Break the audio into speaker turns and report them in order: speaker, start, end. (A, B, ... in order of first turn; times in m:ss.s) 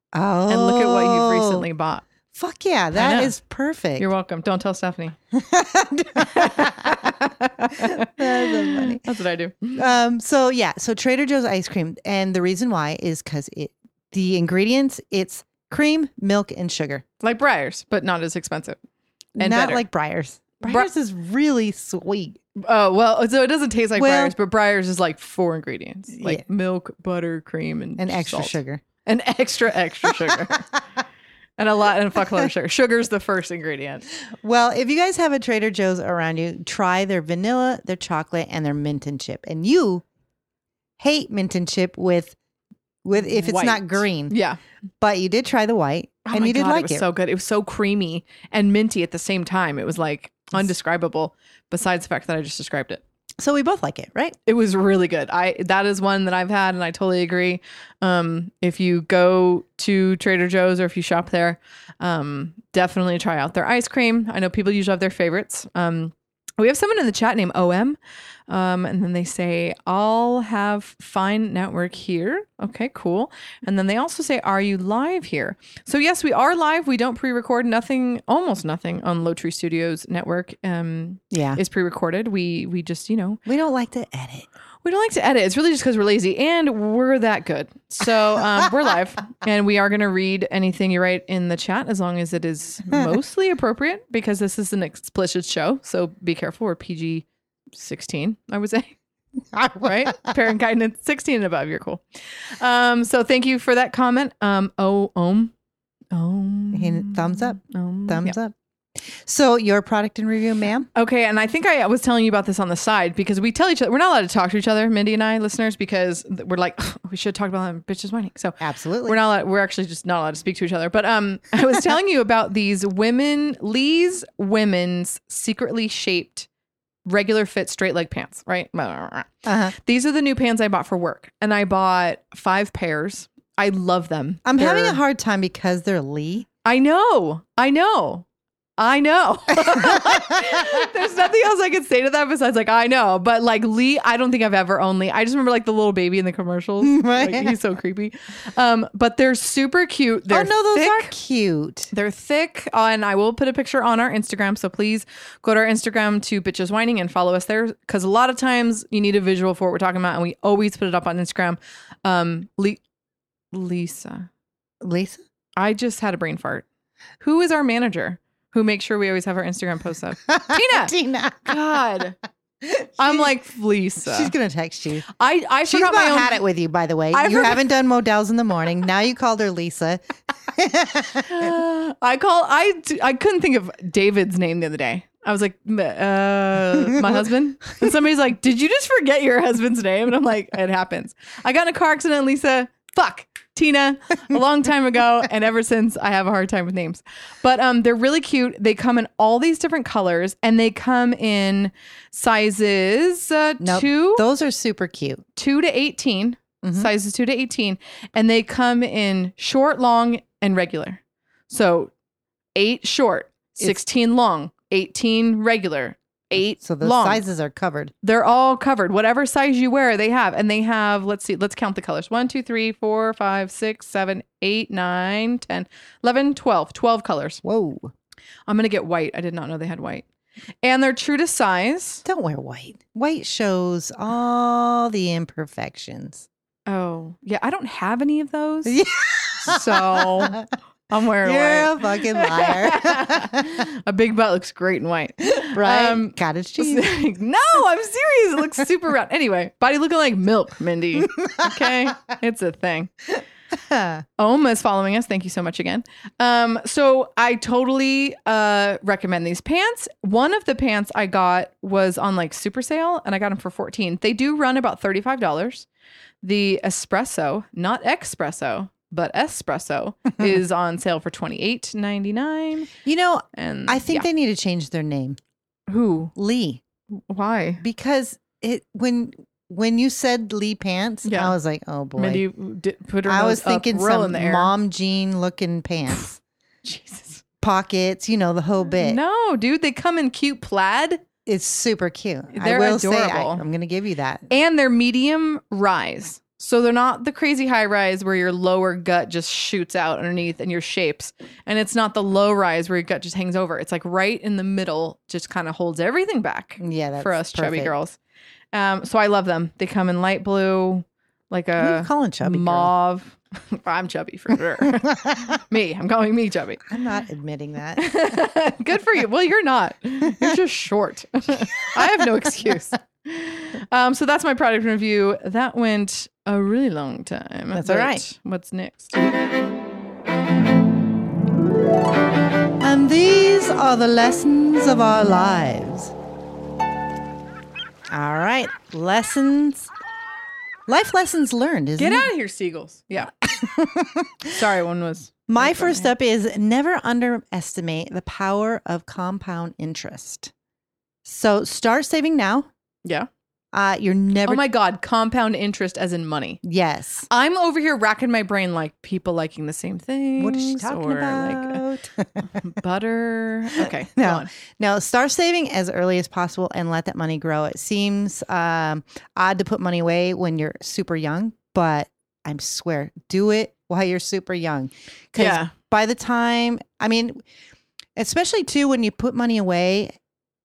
0:00.1-0:01.6 A
0:00.5-0:02.0 B
0:02.3-0:04.1 A
0:02.9-0:03.4 B
0:04.0-0:05.2 B
0:05.3-0:07.1 A
0:06.2-0:09.8 B
0:07.8-0:09.0 A
0:09.8-0:17.0 A
0:17.2-0:18.8 B
0:19.4-0:19.8 B
0:19.4-0:22.4 A
0:22.6-0:30.6 B
0:24.0-0:24.3 A
0:26.1-0:26.4 A
0:28.0-0:28.8 A
0:30.0-0:30.6 A
0:31.6-0:34.1 B
0:34.4-0:40.0 A
0:41.0-0:42.4 A
0:43.0-0:44.4 A
0:43.2-0:44.6 B
0:45.0-0:47.0 A
0:46.2-0:53.0 B
0:53.4-0:54.4 A
0:54.4-1:08.0 B
1:08.5-1:23.4 B
1:21.3-1:21.6 A
1:23.4-1:24.5 A
1:24.8-1:39.0 B
1:39.5-1:40.3 A
1:39.8-1:45.5 B
1:46.1-1:48.4 B
1:46.7-1:48.5 A
1:49.1-1:50.9 A
1:50.9-2:06.5 B
1:58.6-1:59.2 A
2:07.0-2:15.0 B
2:09.4-2:09.7 A
2:14.4-2:16.5 A
2:16.6-2:18.2 B
2:18.8-2:31.1 B
2:19.7-2:20.8 A
2:26.8-2:27.6 A
2:30.3-2:31.9 A
2:31.9-2:42.8 B
2:43.5-2:44.3 B
2:44.8-2:45.2 A
2:45.6-2:46.6 B
2:47.2-2:50.9 B
2:50.3-2:51.6 A
2:51.4-2:52.2 B
2:52.6-2:53.3 A
2:53.0-2:54.3 B
2:54.0-2:55.1 A
2:55.2-2:56.4 B
2:55.7-3:01.5 A
2:57.1-2:57.6 B
3:01.2-3:24.2 B
3:07.0-3:07.2 A
3:23.6-3:25.2 A
3:25.4-3:31.9 B
3:26.6-3:26.9 A
3:32.5-3:37.2 B
3:36.4-3:37.9 A
3:38.0-3:47.4 B
3:47.4-3:47.9 A
3:48.5-3:50.0 B
3:50.6-3:52.0 B
3:52.0-3:56.2 A
3:56.7-3:58.8 B
3:58.6-4:00.4 A
3:59.4-4:12.9 B
4:01.2-4:03.5 A
4:05.5-4:06.9 A
4:11.2-4:11.7 A
4:13.5-4:14.0 A
4:14.2-4:25.7 B
4:26.2-4:32.7 B
4:32.8-4:35.2 A
4:33.4-4:34.1 B
4:35.7-4:36.1 B
4:36.2-4:36.6 A
4:36.9-4:37.6 B
4:37.6-4:42.2 A
4:41.0-4:41.4 B
4:42.0-4:44.5 B
4:43.0-4:46.1 A
4:45.9-4:47.2 B
4:47.4-4:49.0 A
4:48.7-4:51.0 B
4:51.2-4:54.3 A
4:52.3-4:53.4 B
4:54.3-5:08.0 B
5:06.6-5:07.7 A
5:08.5-5:16.7 B
5:11.6-5:12.7 A
5:16.7-5:17.9 A
5:17.8-5:29.2 B
5:21.8-5:22.1 A
5:27.5-5:28.0 A
5:32.6-5:35.9 A
5:37.9-5:39.7 A
5:40.7-5:42.1 A
5:41.8-5:43.1 B
5:43.2-5:44.3 A
5:44.3-5:45.9 B
5:45.3-5:50.3 A
5:51.0-5:52.5 A
5:53.5-5:54.4 A
5:54.2-5:56.4 B
5:56.4-5:57.1 A
5:57.1-6:01.6 B
6:00.2-6:02.2 A
6:02.4-6:04.3 B
6:03.6-6:17.2 A
6:15.2-6:15.5 B
6:18.0-6:20.0 A